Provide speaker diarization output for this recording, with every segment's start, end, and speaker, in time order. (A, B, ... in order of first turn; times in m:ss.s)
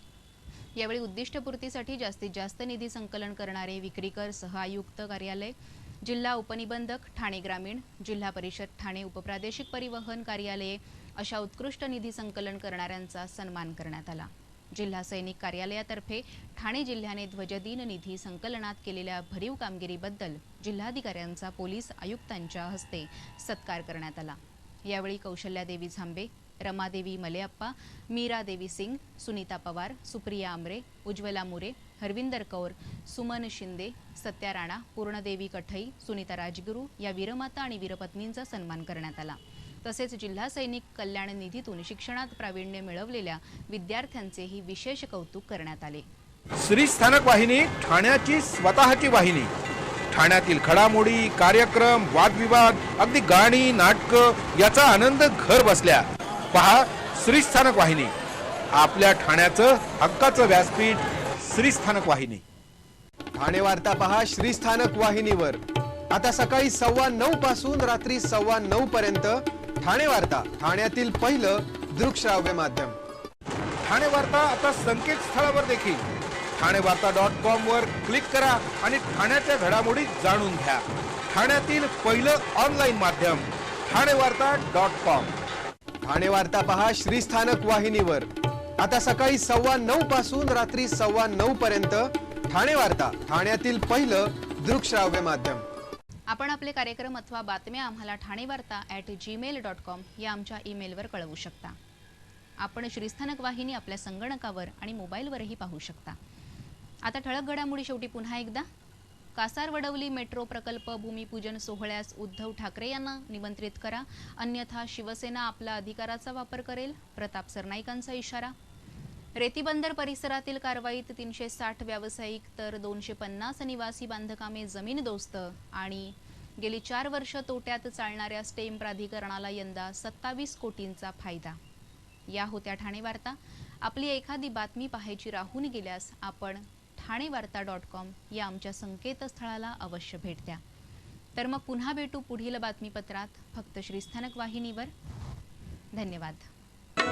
0:00.8-0:46.0 A
0:46.6-0:49.5 B
0:50.1-0:58.1 B
0:58.7-1:02.4 B
1:03.4-1:13.0 C
1:13.8-1:16.0 B
1:16.6-1:25.3 B
1:26.0-1:28.3 C
1:28.8-1:35.6 C
1:36.3-1:41.8 A
1:42.6-1:46.2 A
1:47.0-1:48.6 A
1:49.4-1:58.5 A
1:59.4-2:11.6 A
2:12.3-2:20.6 A
2:21.4-2:24.9 A
2:25.9-2:26.5 A